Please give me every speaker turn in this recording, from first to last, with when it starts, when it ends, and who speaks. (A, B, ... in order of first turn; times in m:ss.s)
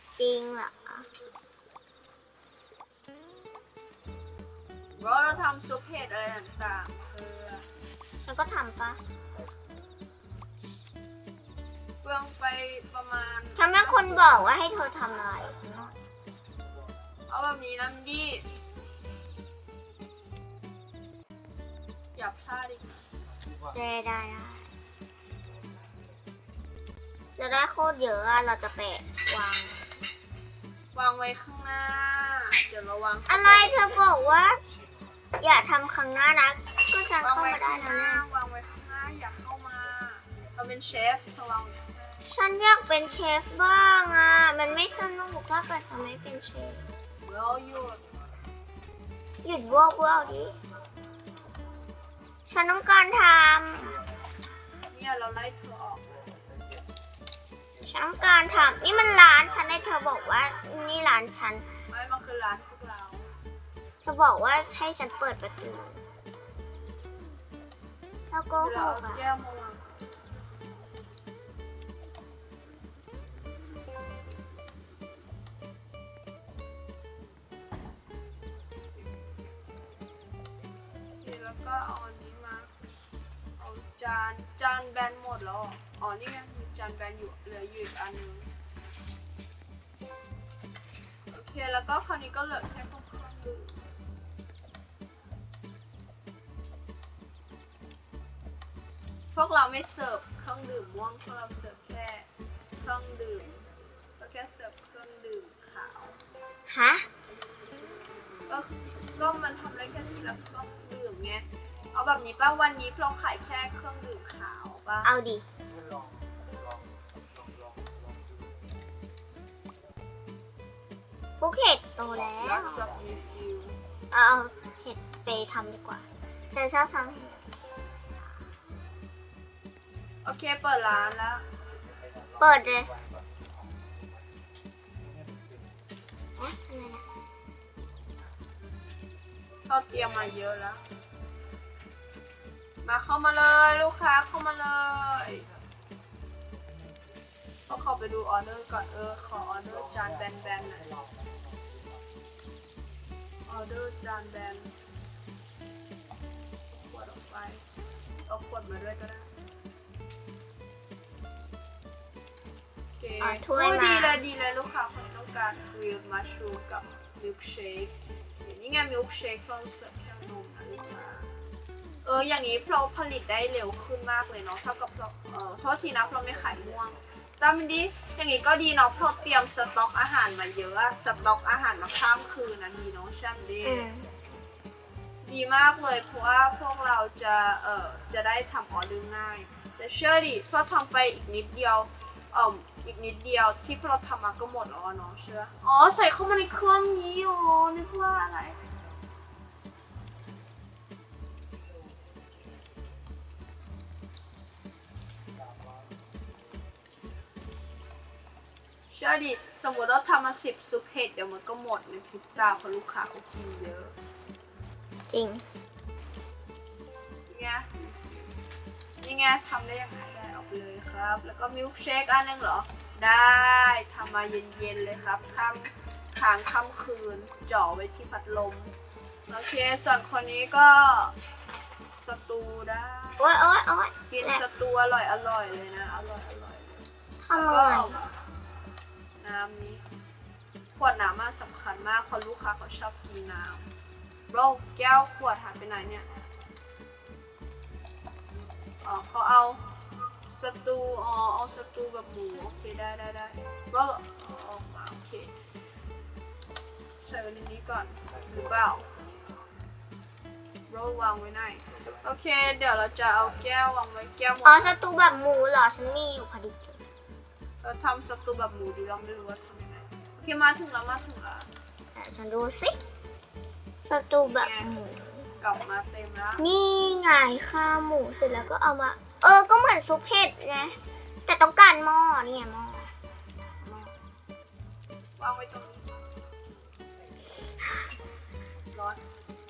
0:00.2-0:01.0 A
0:05.0-0:07.7 B
0:08.2-0:09.0 A
0:12.0-0:14.6 B
0:13.6-0:15.9 A
0:17.3-0:18.5 B
0:22.1-0:23.1 B
0:23.7-0:24.7 A
0:27.4-0:29.8 A
0:30.9-0:34.0 B
0:33.3-0:34.6 A
0:35.4-0:38.2 A
0:37.2-0:41.9 B
0:42.3-0:46.9 A
0:47.2-0:48.0 B
0:49.4-0:50.6 A
0:52.4-0:54.0 A
0:54.9-0:56.2 B
0:57.8-1:01.7 A
1:01.9-1:03.3 B
1:04.0-1:06.0 A
1:08.3-1:09.2 A
1:08.6-1:10.0 B
1:21.2-1:22.7 B
1:23.6-1:28.5 B
1:31.3-1:33.9 B
1:39.3-1:42.3 B
1:42.8-1:43.5 B
1:44.2-1:46.2 B
1:46.7-1:47.0 A
1:48.5-1:55.1 B
1:55.0-1:55.4 A
2:01.4-2:02.9 A
2:02.4-2:03.8 B
2:04.1-2:07.5 A
2:10.2-2:11.4 B
2:12.4-2:13.0 A
2:16.4-2:17.0 A
2:19.7-2:20.8 B
2:22.8-2:25.4 B
2:27.7-2:30.9 B
2:33.5-2:34.7 B
2:36.7-2:37.6 B
2:38.3-2:39.3 B
2:43.0-2:51.3 B
2:43.2-2:44.2 A
2:52.0-3:03.9 B
3:03.6-3:04.1 A
3:05.2-3:18.6 B
3:28.9-3:33.9 B
3:35.1-3:35.4 A
3:37.3-3:38.3 B
3:39.0-3:48.7 B
3:49.3-3:51.1 B
3:52.0-3:53.3 B
3:53.2-3:54.4 A
3:54.1-3:58.1 B
3:57.2-3:58.0 A
3:59.2-3:59.8 B
4:00.8-4:03.7 B
4:04.3-4:06.0 B
4:08.8-4:09.6 B
4:10.3-4:15.3 B
4:17.0-4:18.9 B
4:20.7-4:24.8 B
4:24.4-4:26.8 A
4:27.6-4:31.5 B
4:31.9-4:32.8 A
4:33.8-4:35.3 A
4:34.2-4:34.7 B
4:35.4-4:36.5 B
4:36.4-4:42.9 A
4:43.6-4:44.0 A
4:45.2-4:45.9 B
4:48.7-4:49.0 B